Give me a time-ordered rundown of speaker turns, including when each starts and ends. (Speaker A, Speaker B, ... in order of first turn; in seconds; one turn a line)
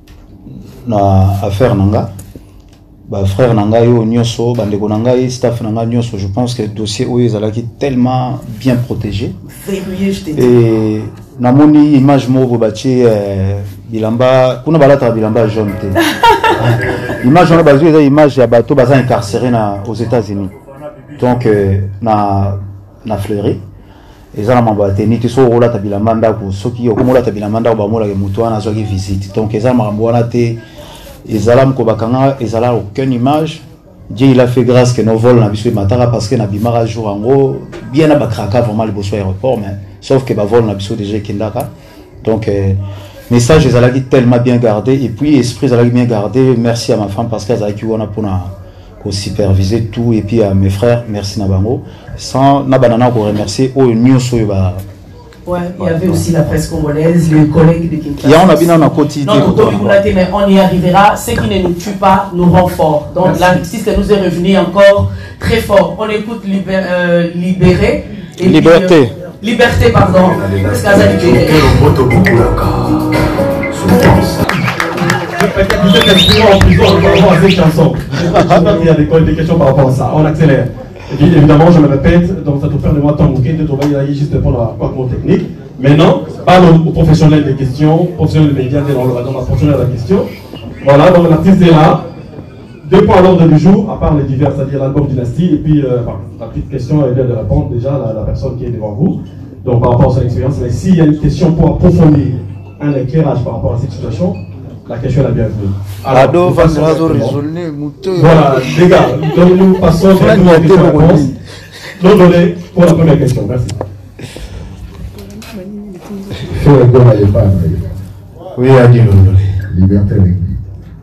Speaker A: 0.8-2.1
Speaker A: 3.1-9.3
Speaker B: 9.4-10.5
Speaker A: 10.3-16.0
Speaker A: 16.6-20.5
Speaker A: 21.2-23.6
Speaker A: 24.3-30.6
Speaker A: 31.2-41.7
Speaker A: 42.2-54.8
Speaker B: 55.5-71.7
Speaker A: 55.8-56.3
Speaker A: 58.2-60.0
Speaker A: 68.4-69.1
Speaker A: 70.3-74.5
Speaker C: 75.3-90.3
Speaker A: 78.3-78.8
Speaker C: 90.8-92.0
Speaker C: 92.8-107.4
Speaker A: 106.1-108.8
Speaker C: 108.1-111.3
Speaker A: 110.0-111.4
Speaker C: 112.0-113.8
Speaker D: 116.5-117.9
Speaker A: 118.6-119.6
Speaker D: 119.7-120.5